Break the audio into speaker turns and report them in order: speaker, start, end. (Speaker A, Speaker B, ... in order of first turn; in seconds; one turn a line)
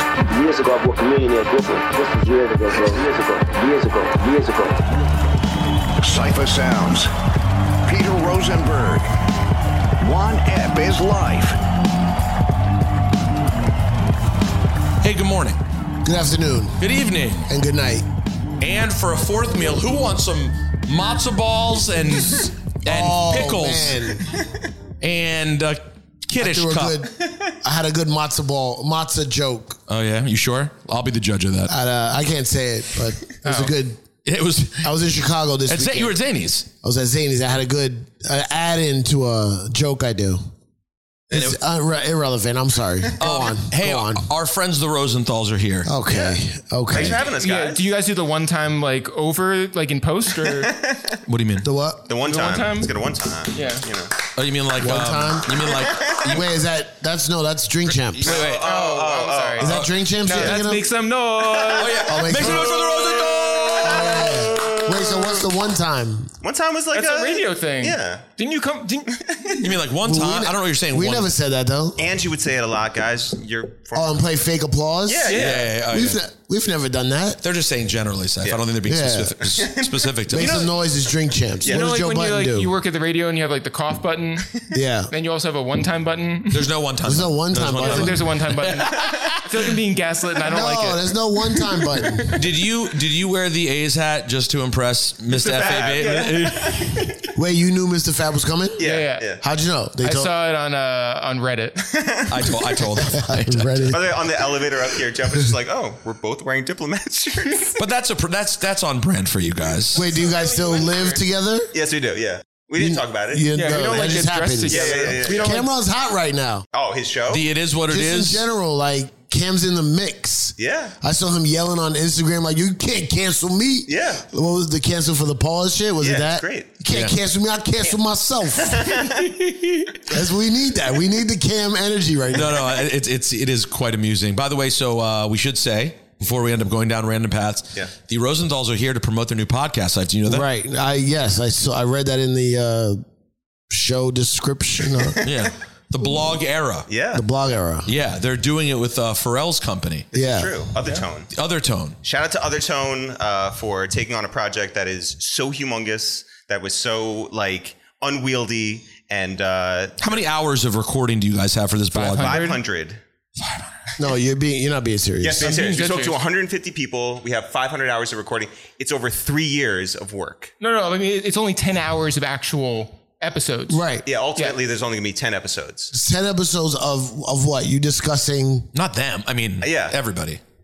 Speaker A: 0.3-4.8
Speaker B: 1.8-3.2
Speaker C: 6.0-7.1
Speaker C: 7.8-9.1
Speaker C: 10.0-11.6
Speaker D: 15.0-15.6
Speaker B: 16.0-16.8
Speaker D: 16.8-17.5
Speaker B: 17.5-18.1
Speaker D: 18.6-24.1
Speaker B: 22.8-24.3
Speaker D: 25.0-27.0
Speaker B: 26.4-29.8
Speaker D: 29.9-31.7
Speaker B: 31.7-34.0
Speaker E: 33.4-33.7
Speaker D: 34.2-34.9
Speaker B: 34.8-36.2
Speaker D: 35.7-36.7
Speaker B: 36.8-40.4
Speaker D: 41.3-41.6
Speaker B: 41.3-44.3
Speaker D: 43.2-45.9
Speaker B: 45.9-47.2
Speaker F: 46.9-47.8
Speaker E: 47.4-50.7
Speaker F: 50.4-51.2
Speaker D: 51.3-51.7
Speaker B: 51.6-52.0
Speaker F: 52.1-54.1
Speaker E: 52.2-53.0
Speaker E: 53.5-53.9
Speaker D: 54.3-56.5
Speaker B: 54.8-55.7
Speaker F: 55.6-56.4
Speaker B: 56.2-58.4
Speaker D: 57.9-58.7
Speaker F: 58.2-60.6
Speaker E: 58.5-62.5
Speaker B: 59.6-60.9
Speaker F: 61.4-61.9
Speaker D: 61.8-64.4
Speaker B: 62.0-62.8
Speaker F: 63.3-64.1
Speaker B: 63.8-66.3
Speaker F: 66.4-68.2
Speaker E: 66.9-69.3
Speaker F: 69.1-69.7
Speaker D: 69.6-71.3
Speaker B: 70.0-72.0
Speaker F: 72.0-74.2
Speaker B: 73.9-75.4
Speaker F: 75.1-75.7
Speaker E: 75.3-75.7
Speaker D: 75.3-76.2
Speaker B: 75.9-77.4
Speaker D: 77.4-80.7
Speaker B: 78.8-79.4
Speaker F: 79.4-80.5
Speaker B: 80.3-82.7
Speaker E: 81.7-84.5
Speaker B: 84.7-85.1
Speaker E: 85.1-86.7
Speaker D: 86.5-89.8
Speaker B: 87.0-88.2
Speaker E: 87.8-91.1
Speaker B: 90.5-92.5
Speaker D: 92.2-97.0
Speaker F: 95.3-97.0
Speaker E: 95.4-97.3
Speaker B: 97.3-98.8
Speaker F: 98.8-99.4
Speaker E: 98.8-99.3
Speaker B: 99.4-100.3
Speaker E: 100.0-101.8
Speaker F: 101.8-102.7
Speaker D: 102.3-104.0
Speaker B: 103.1-104.1
Speaker F: 103.9-107.8
Speaker D: 107.8-110.0
Speaker F: 109.9-111.1
Speaker B: 109.9-111.7
Speaker E: 110.2-110.5
Speaker F: 111.7-115.6
Speaker B: 112.8-116.6
Speaker E: 113.5-115.7
Speaker F: 116.7-117.5
Speaker D: 117.3-118.5
Speaker B: 117.9-128.9
Speaker F: 120.6-121.0
Speaker F: 123.9-124.2
Speaker F: 126.0-126.7
Speaker F: 128.6-129.7
Speaker E: 129.2-129.6
Speaker B: 130.1-132.7
Speaker D: 132.3-140.4
Speaker B: 140.2-143.0
Speaker B: 143.7-145.2
Speaker F: 145.0-145.5
Speaker D: 145.2-146.9
Speaker F: 146.9-147.2
Speaker B: 147.1-147.9
Speaker D: 147.9-150.1
Speaker B: 150.1-150.5
Speaker F: 150.1-151.3
Speaker D: 151.3-152.0
Speaker F: 152.0-160.2
Speaker D: 160.0-162.4
Speaker E: 161.9-162.6
Speaker F: 162.2-163.0
Speaker D: 163.4-163.7
Speaker B: 164.0-165.8
Speaker F: 165.2-170.5
Speaker E: 165.4-166.2
Speaker E: 170.6-173.8
Speaker B: 173.7-174.1
Speaker F: 174.1-175.9
Speaker B: 175.9-178.7
Speaker D: 178.7-180.4
Speaker F: 179.6-180.0